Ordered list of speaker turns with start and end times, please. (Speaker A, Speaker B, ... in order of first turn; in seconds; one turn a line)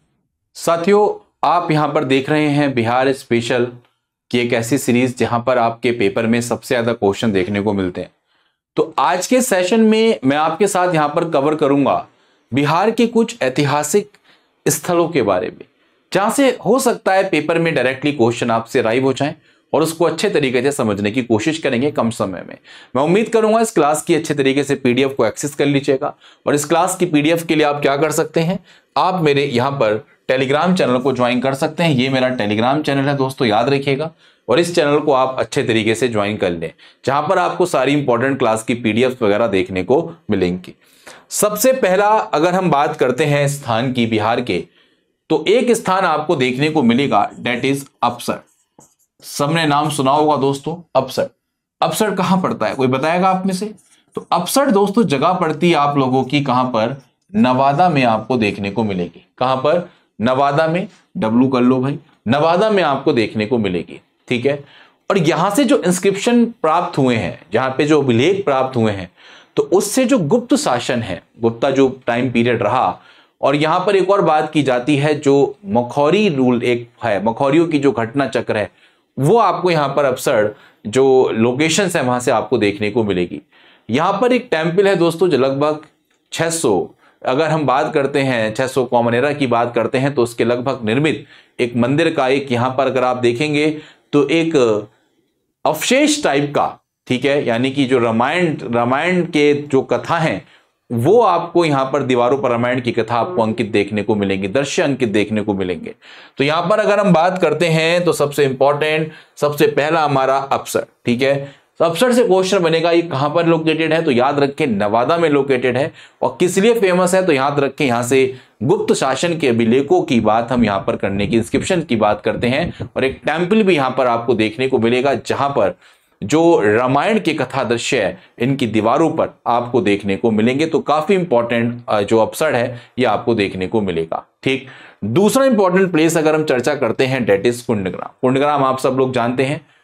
Speaker A: 0.5-3.7
Speaker A: 4.3-8.1
Speaker A: 8.7-40.8
Speaker A: 41.3-44.7
Speaker A: 45.3-48.4
Speaker A: 49.2-94.9
Speaker A: 95.6-139.6